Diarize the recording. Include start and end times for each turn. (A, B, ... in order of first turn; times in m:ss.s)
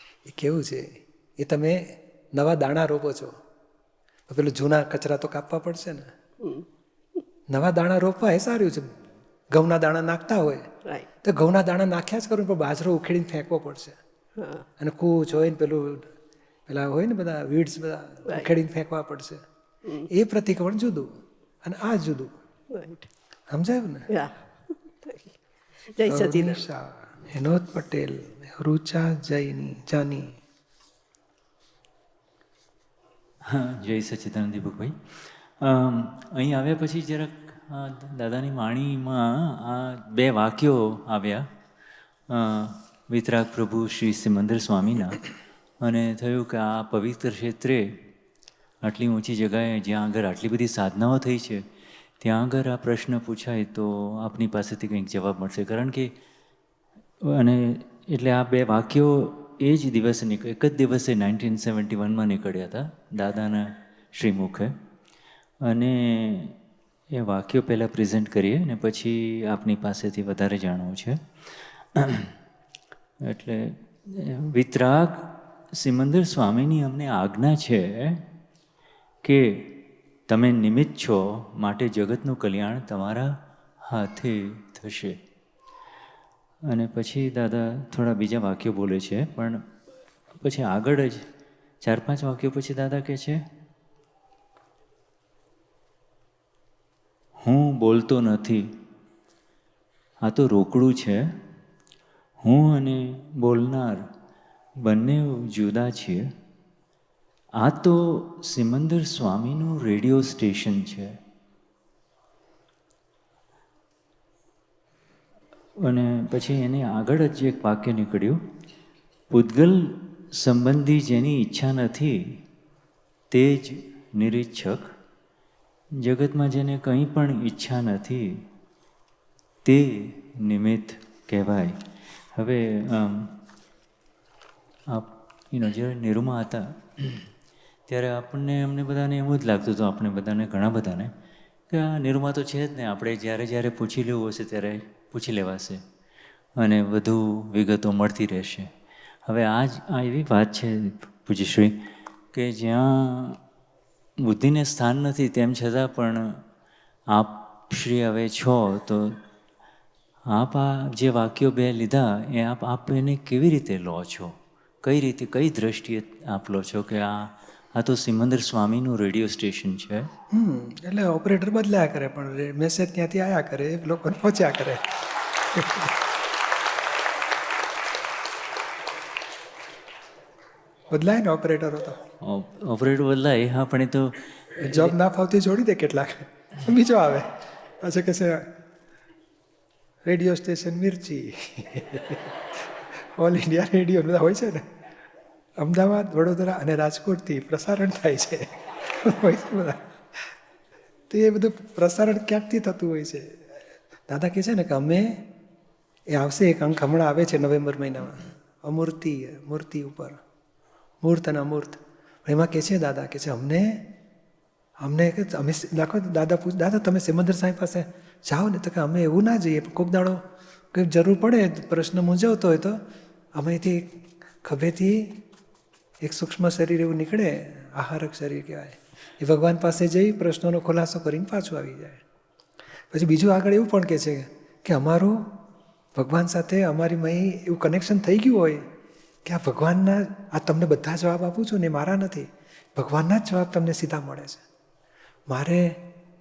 0:00.3-0:03.3 A
0:04.3-0:06.1 A
0:06.4-0:06.7 B
0:07.5-0:08.9 A
0:09.5-0:10.6 A
0:11.2-0:14.0 A
0:14.4-0:14.6 B
0:14.8-0:16.1 A
0:16.7-0:19.4 A
0:20.1-0:21.1 A
0:21.6-0:22.3 A
0:22.7-0:23.1 B
0:23.5-0:24.1 A
0:24.1-0:25.4 B
0:25.9-0:26.6 B
0:26.1-0:30.4 A
0:33.4-0:41.5 C
0:42.3-0:45.3 C
0:45.8-0:47.9 C
0:48.8-0:51.6 C
0:52.2-0:56.1 C
0:57.2-1:04.7 C
1:05.6-1:06.6 C
1:07.1-1:12.3 C
1:13.2-1:18.2 C
1:19.2-1:25.2 C
1:26.7-1:29.6 C
1:30.4-1:31.2 C
1:31.8-1:33.4 C
1:37.4-1:38.6 C
1:40.2-1:41.2 C
1:42.4-1:44.0 C
1:44.8-1:46.2 C
1:47.6-1:51.1 C
1:55.8-1:58.4 C
1:59.3-2:02.4 C
2:03.3-2:04.8 C
2:06.0-2:08.4 C
2:09.6-2:11.8 C
2:12.3-2:13.4 C
2:14.9-2:17.3 C
2:17.9-2:21.1 C
2:21.7-2:25.8 C
2:26.6-2:28.7 C
2:29.2-2:33.4 C
2:34.2-2:36.4 C
2:37.1-2:39.2 C
2:40.3-2:50.1 C
2:50.3-2:55.9 A
3:00.9-3:02.0 A
3:02.2-3:05.0 C
3:04.6-3:07.3 A
3:07.8-3:08.4 A
3:10.0-3:14.6 A
3:15.6-3:20.3 A
3:21.1-3:23.4 A
3:24.1-3:25.3 A
3:26.1-3:30.2 A
3:31.0-3:33.8 A
3:34.8-3:40.2 A
3:40.7-3:42.8 A
3:43.4-3:45.2 A
3:46.0-3:52.0 A
3:52.9-3:55.2 A
3:56.0-3:58.6 A
3:59.2-4:04.4 A
4:05.3-4:05.8 A